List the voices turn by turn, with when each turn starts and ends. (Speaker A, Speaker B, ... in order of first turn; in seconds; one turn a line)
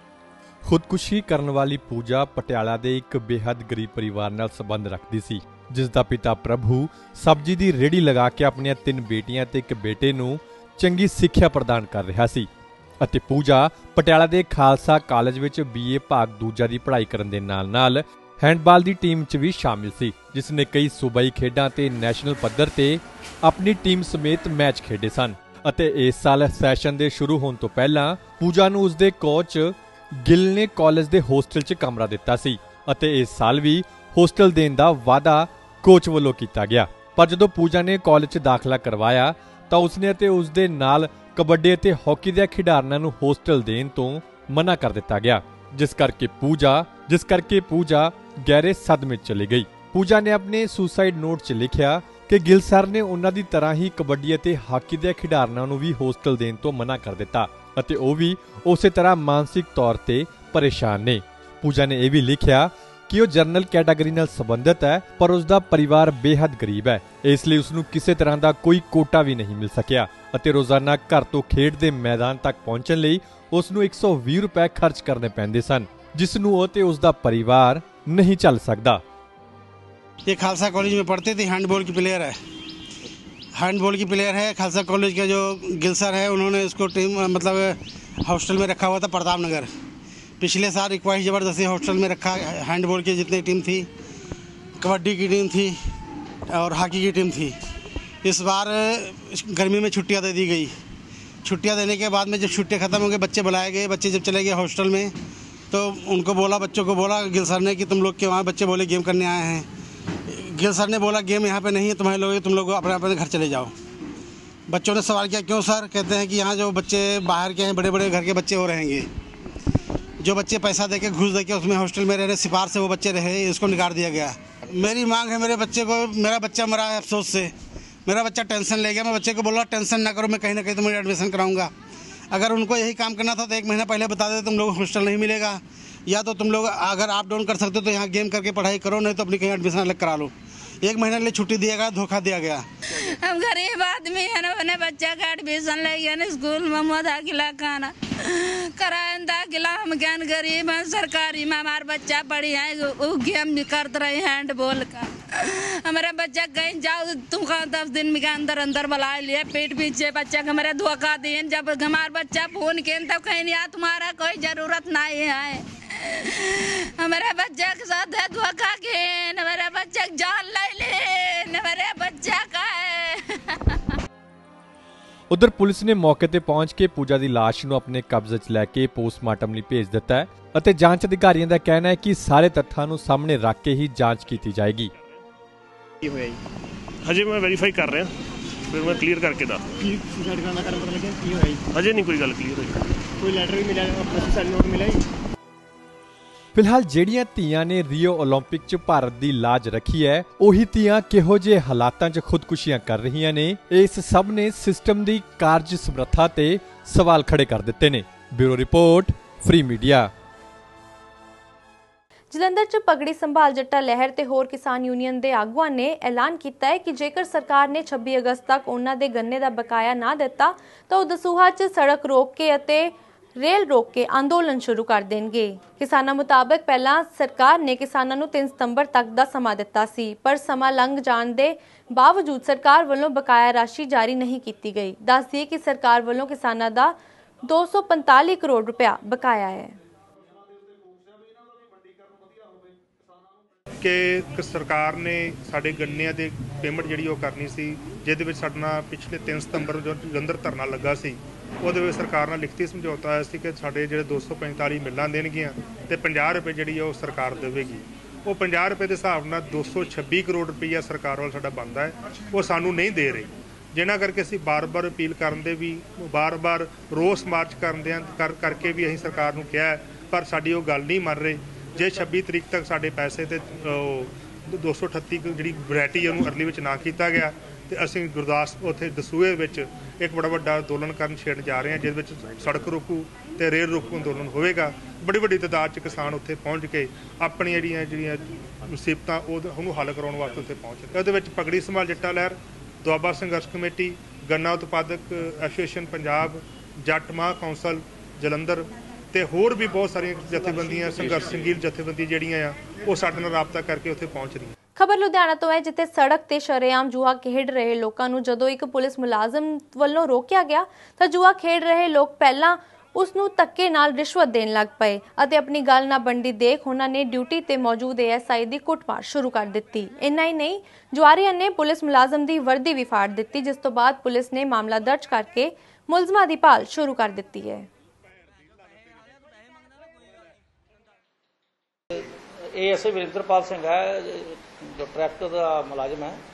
Speaker A: 0.7-12.5
Speaker A: 13.0-79.0
Speaker B: 80.3-82.4
Speaker B: 83.6-89.7
Speaker B: 90.4-93.9
Speaker B: 94.8-95.8
Speaker B: 96.5-97.5
Speaker B: 98.2-100.7
Speaker B: 101.4-105.1
Speaker B: 105.7-109.7
Speaker B: 110.3-113.7
Speaker B: 114.7-119.1
Speaker B: 120.2-127.5
Speaker B: 128.1-131.7
Speaker B: 132.3-142.7
Speaker C: 143.0-173.8
Speaker A: 175.3-184.9
Speaker D: 186.0-186.3
Speaker E: 187.1-188.1
Speaker E: 188.7-189.7
Speaker D: 189.8-191.7
Speaker E: 191.7-192.8
Speaker D: 193.2-195.0
Speaker A: 196.6-210.1
Speaker F: 212.3-239.8
Speaker G: 243.8-304.5
Speaker F: 304.8-327.7
Speaker H: 331.9-336.2